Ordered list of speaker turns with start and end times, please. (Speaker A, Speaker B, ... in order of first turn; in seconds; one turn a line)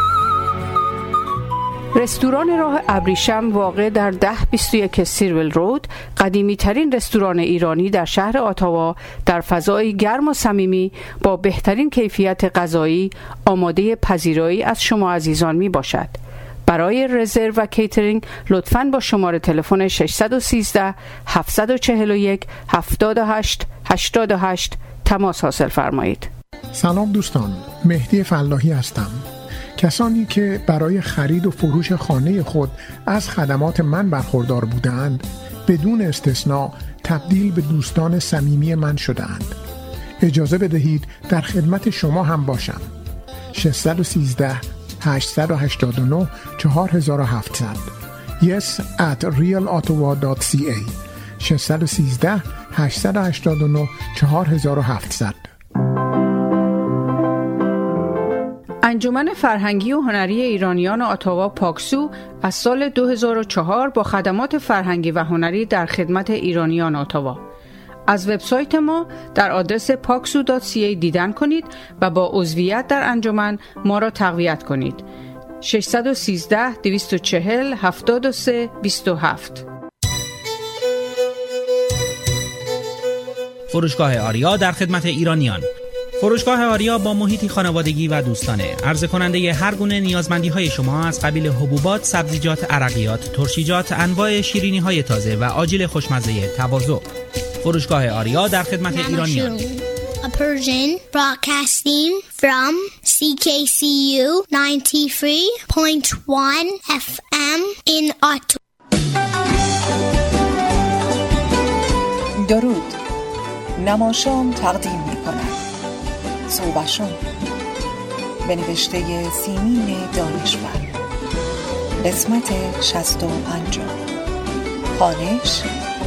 Speaker A: 1.9-26.3
Speaker B: 26.7-29.2
Speaker B: 29.8-39.5
Speaker B: 40.2-42.9
Speaker B: 43.5-55.5
Speaker A: 58.8-67.4
Speaker A: 68.1-75.0
Speaker A: 75.6-79.7
Speaker C: 83.7-85.6
Speaker C: 86.2-97.0
Speaker C: 97.6-99.6
Speaker D: 98.9-108.6
Speaker E: 112.3-113.0
Speaker E: 113.8-115.6
Speaker E: 116.5-117.2
Speaker E: 118.4-120.9
Speaker E: 122.0-123.9
Speaker E: 124.9-125.7